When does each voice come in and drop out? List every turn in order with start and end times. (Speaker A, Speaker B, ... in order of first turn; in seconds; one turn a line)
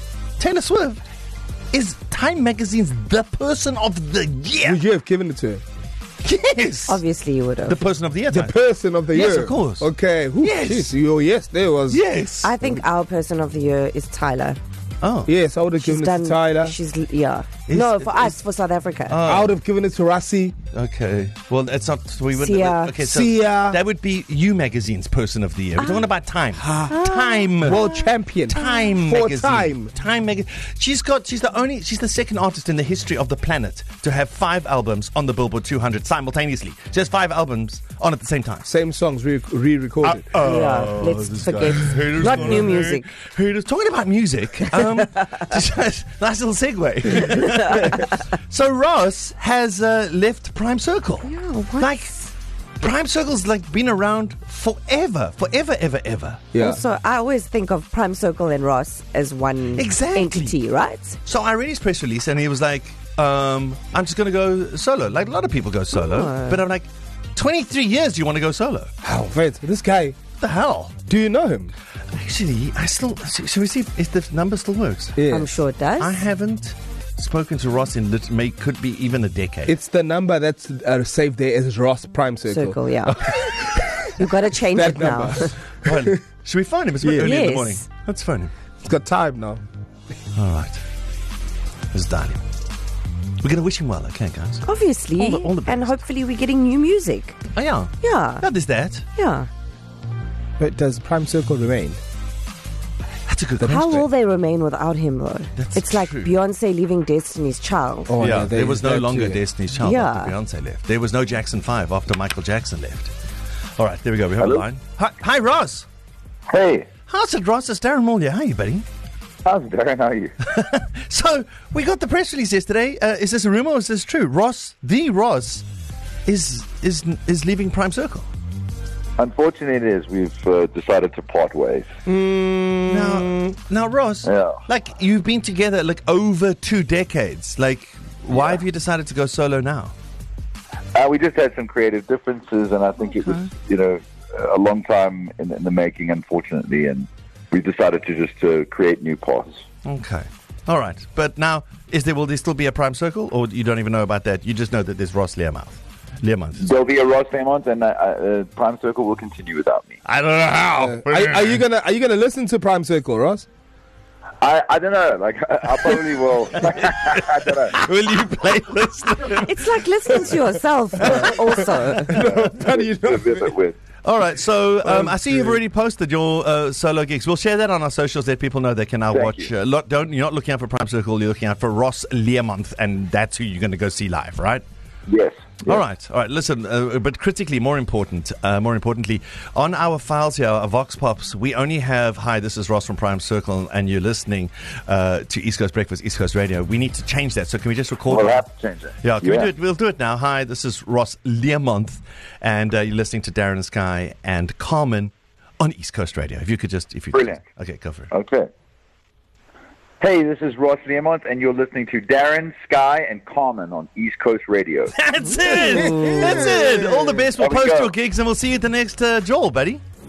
Speaker A: 0.4-1.0
Speaker A: 1.7-4.8
Speaker B: 4.6-5.6
Speaker A: 6.2-7.0
Speaker C: 6.9-7.9
Speaker A: 7.7-8.6
Speaker B: 8.3-12.0
Speaker A: 9.1-9.9
Speaker A: 10.4-10.9
Speaker A: 11.9-12.6
Speaker C: 12.4-14.6
Speaker A: 15.0-15.3
Speaker B: 15.3-16.8
Speaker C: 15.8-19.2
Speaker A: 17.7-18.4
Speaker A: 19.1-19.5
Speaker B: 19.2-20.6
Speaker A: 20.7-38.7
Speaker C: 22.3-22.9
Speaker B: 23.0-23.8
Speaker C: 25.8-26.1
Speaker C: 26.8-27.8
Speaker B: 27.6-29.9
Speaker B: 38.7-40.2
Speaker A: 40.0-52.2
Speaker C: 40.4-43.1
Speaker C: 51.2-52.3
Speaker A: 52.8-56.5
Speaker B: 56.5-56.8
Speaker C: 56.6-61.2
Speaker A: 59.8-60.6
Speaker A: 61.2-68.9
Speaker C: 65.9-66.6
Speaker B: 69.0-70.2
Speaker A: 70.4-71.0
Speaker B: 71.1-71.7
Speaker A: 72.1-75.2
Speaker B: 75.2-75.6
Speaker C: 75.3-76.2
Speaker A: 76.0-79.8
Speaker B: 79.7-86.2
Speaker C: 82.5-85.6
Speaker A: 85.8-88.5
Speaker B: 87.0-87.3
Speaker C: 87.2-87.8
Speaker B: 88.8-89.6
Speaker A: 90.3-90.8
Speaker A: 91.9-92.4
Speaker A: 93.4-94.7
Speaker C: 94.6-97.4
Speaker A: 95.2-96.0
Speaker A: 97.5-99.0
Speaker C: 98.0-98.5
Speaker C: 99.2-99.5
Speaker B: 100.6-102.0
Speaker A: 103.3-104.1
Speaker B: 103.6-103.9
Speaker C: 103.7-108.2
Speaker A: 105.6-106.3
Speaker B: 108.1-109.4
Speaker A: 108.2-113.1
Speaker C: 109.8-110.3
Speaker A: 113.8-115.9
Speaker D: 114.4-114.7
Speaker D: 116.5-116.9
Speaker A: 117.1-118.9
Speaker D: 119.5-120.3
Speaker A: 120.4-125.7
Speaker A: 126.3-128.3
Speaker D: 129.2-131.9
Speaker B: 132.1-133.3
Speaker A: 132.9-139.9
Speaker D: 134.2-134.6
Speaker D: 138.3-138.6
Speaker D: 140.9-149.6
Speaker A: 143.0-143.5
Speaker A: 149.8-156.8
Speaker D: 156.6-160.0
Speaker A: 160.1-161.6
Speaker B: 160.8-163.5
Speaker D: 164.4-167.8
Speaker A: 166.7-170.2
Speaker C: 169.4-172.2
Speaker B: 171.0-173.6
Speaker A: 171.0-171.5
Speaker D: 172.1-173.8
Speaker A: 174.0-184.6
Speaker B: 174.8-175.6
Speaker D: 179.1-179.5
Speaker D: 185.1-185.8
Speaker A: 185.7-198.4
Speaker D: 198.1-199.5
Speaker A: 199.0-208.1
Speaker D: 207.1-207.4
Speaker D: 208.1-208.5
Speaker D: 210.0-214.9
Speaker A: 214.9-219.8
Speaker B: 215.7-217.2
Speaker C: 215.8-216.1
Speaker D: 217.4-217.9